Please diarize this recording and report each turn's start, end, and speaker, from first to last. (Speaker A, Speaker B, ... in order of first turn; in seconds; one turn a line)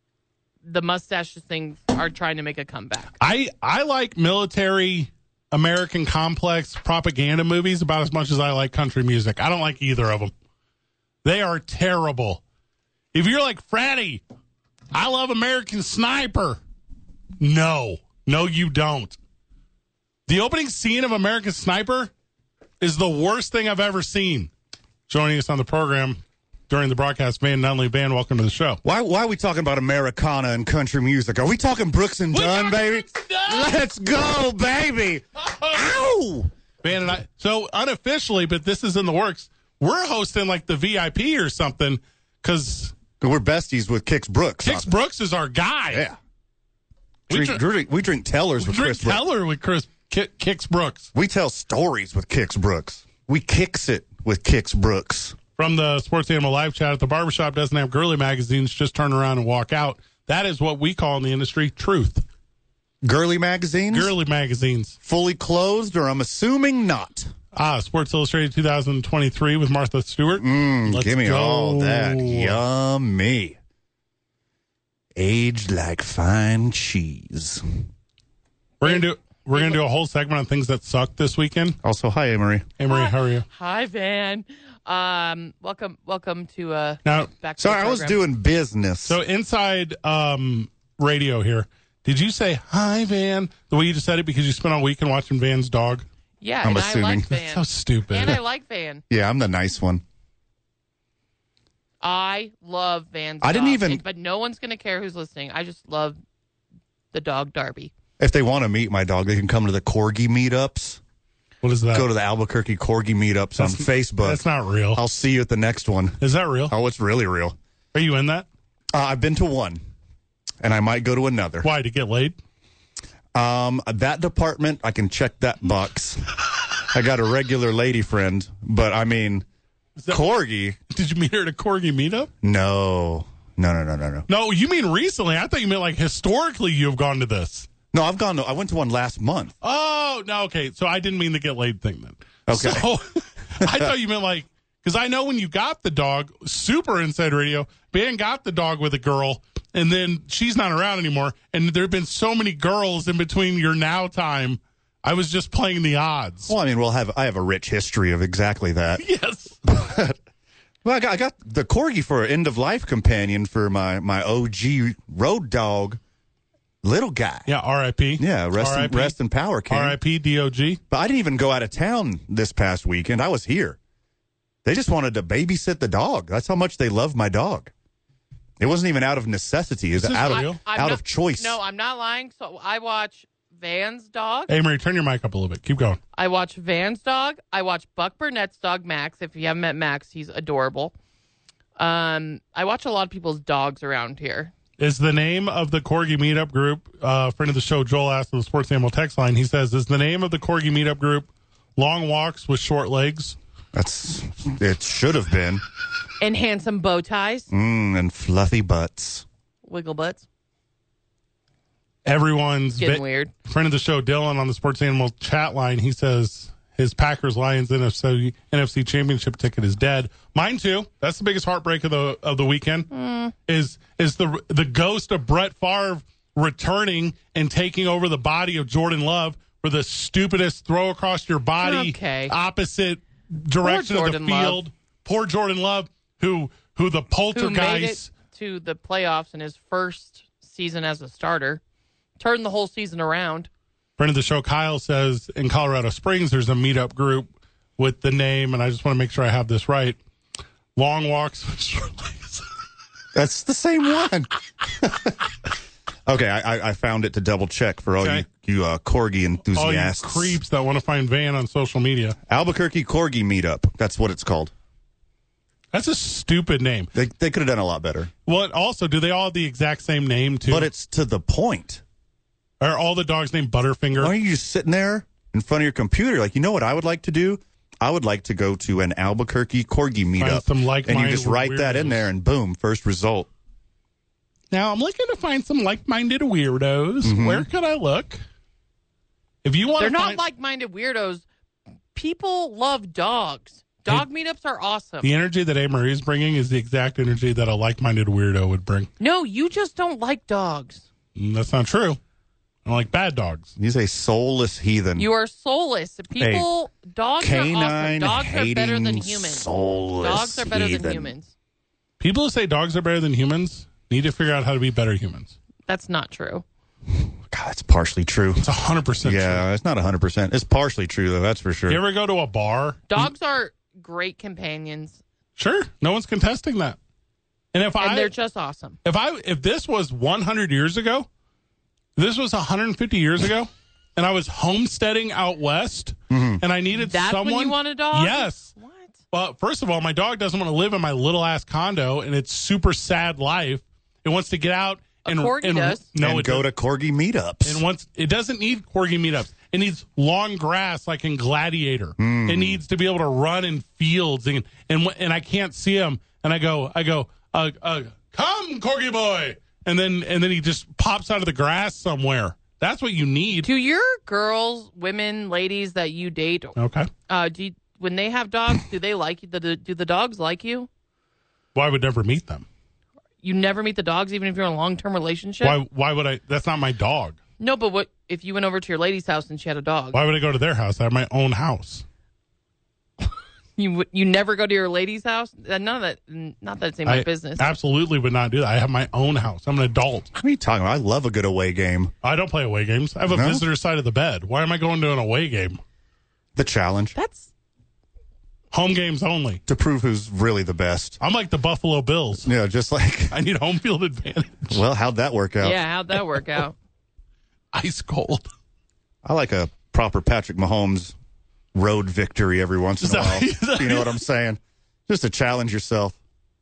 Speaker A: 0.6-3.1
Speaker B: 3.2-10.3
Speaker B: 11.2-12.4
Speaker B: 13.1-14.2
Speaker B: 14.9-16.6
Speaker B: 17.4-19.2
Speaker B: 20.3-22.1
Speaker B: 22.8-24.5
Speaker B: 25.1-28.8
Speaker C: 28.8-36.5
Speaker B: 32.3-33.8
Speaker B: 36.8-42.9
Speaker C: 43.2-44.9
Speaker B: 44.6-46.0
Speaker C: 45.9-46.2
Speaker B: 47.3-47.6
Speaker C: 47.3-49.2
Speaker B: 48.6-51.1
Speaker C: 51.1-55.4
Speaker B: 55.6-62.2
Speaker C: 63.0-64.1
Speaker B: 63.9-65.0
Speaker C: 65.0-67.3
Speaker B: 67.5-72.6
Speaker C: 70.4-73.6
Speaker C: 75.1-77.6
Speaker A: 78.8-79.8
Speaker B: 78.8-81.8
Speaker C: 81.8-82.7
Speaker B: 82.8-83.5
Speaker A: 82.9-88.2
Speaker B: 87.0-87.3
Speaker C: 87.6-89.2
Speaker B: 89.0-96.0
Speaker A: 96.4-99.0
Speaker C: 96.6-97.3
Speaker B: 97.3-98.4
Speaker C: 99.1-100.0
Speaker A: 102.0-106.2
Speaker C: 103.4-104.0
Speaker A: 107.1-107.9
Speaker C: 108.2-111.0
Speaker B: 111.6-112.1
Speaker C: 111.9-114.4
Speaker B: 113.6-115.0
Speaker C: 114.9-117.5
Speaker B: 116.2-116.7
Speaker B: 117.9-118.5
Speaker C: 118.9-119.8
Speaker C: 120.6-121.7
Speaker B: 121.6-122.3
Speaker C: 123.3-129.4
Speaker B: 130.0-130.2
Speaker C: 130.1-130.8
Speaker B: 130.9-132.3
Speaker C: 132.4-134.3
Speaker B: 134.3-137.7
Speaker C: 137.9-139.5
Speaker B: 139.6-156.5
Speaker C: 142.5-142.8
Speaker C: 143.6-143.9
Speaker C: 156.5-159.0
Speaker B: 159.0-159.6
Speaker C: 159.7-160.2
Speaker C: 160.8-166.0
Speaker C: 166.8-167.5
Speaker B: 167.5-169.2
Speaker C: 168.2-170.0
Speaker B: 169.7-170.8
Speaker C: 170.9-173.8
Speaker C: 174.6-177.7
Speaker C: 178.6-181.6
Speaker B: 180.0-180.6
Speaker A: 180.3-184.5
Speaker B: 184.5-186.0
Speaker A: 186.1-190.9
Speaker A: 191.8-194.5
Speaker B: 194.8-203.4
Speaker C: 203.7-205.6
Speaker A: 206.2-207.5
Speaker C: 207.5-209.2
Speaker A: 209.6-210.2
Speaker B: 212.1-222.9
Speaker A: 212.8-213.3
Speaker A: 222.9-223.3
Speaker B: 223.5-238.1
Speaker A: 231.6-232.3
Speaker A: 233.6-234.6
Speaker A: 237.3-241.6
Speaker A: 242.2-243.5
Speaker B: 244.0-250.0
Speaker B: 250.8-252.4
Speaker C: 253.1-255.1
Speaker C: 256.1-260.4
Speaker B: 258.0-258.2
Speaker B: 259.5-262.2
Speaker C: 262.3-264.5
Speaker B: 265.7-266.9
Speaker C: 266.9-268.1
Speaker B: 268.2-270.7
Speaker C: 270.5-271.8
Speaker B: 272.6-274.1
Speaker C: 273.9-283.3
Speaker B: 280.2-282.1
Speaker B: 284.5-288.2
Speaker C: 287.0-287.4
Speaker B: 289.4-290.2
Speaker A: 289.8-291.2
Speaker A: 291.9-295.1
Speaker B: 295.0-298.9
Speaker A: 299.0-300.8
Speaker B: 301.1-302.0
Speaker B: 302.6-303.5
Speaker C: 303.6-305.1
Speaker A: 305.0-309.5
Speaker C: 306.2-306.5
Speaker C: 307.2-311.1
Speaker A: 310.0-311.3
Speaker B: 312.0-315.3
Speaker A: 315.7-316.4
Speaker C: 317.0-318.4
Speaker B: 318.4-319.4
Speaker C: 319.0-321.8
Speaker B: 321.7-323.1
Speaker A: 322.9-325.0
Speaker B: 325.4-326.8
Speaker B: 327.5-328.1
Speaker A: 327.8-328.8
Speaker B: 328.8-331.1
Speaker B: 332.0-338.5
Speaker C: 336.1-336.4
Speaker A: 336.8-338.9
Speaker B: 339.1-346.4
Speaker A: 345.0-345.8
Speaker C: 346.0-347.6
Speaker B: 347.4-363.5
Speaker C: 352.0-352.6
Speaker A: 363.4-366.6
Speaker B: 366.6-366.9
Speaker A: 367.1-370.7
Speaker B: 371.5-372.4
Speaker A: 373.2-375.6
Speaker B: 375.4-377.2
Speaker A: 377.4-380.0
Speaker B: 379.9-381.8
Speaker A: 383.6-387.5
Speaker B: 386.9-390.1
Speaker C: 390.1-391.9
Speaker B: 392.0-395.6
Speaker C: 393.1-393.4
Speaker C: 396.4-396.9
Speaker A: 396.9-397.3
Speaker B: 398.5-399.4
Speaker C: 399.5-401.0
Speaker B: 401.0-402.3
Speaker C: 402.2-403.1
Speaker B: 403.1-404.6
Speaker C: 404.5-405.6
Speaker A: 405.4-406.5
Speaker B: 407.5-408.3
Speaker C: 409.0-410.9
Speaker C: 411.5-416.0
Speaker B: 412.8-414.0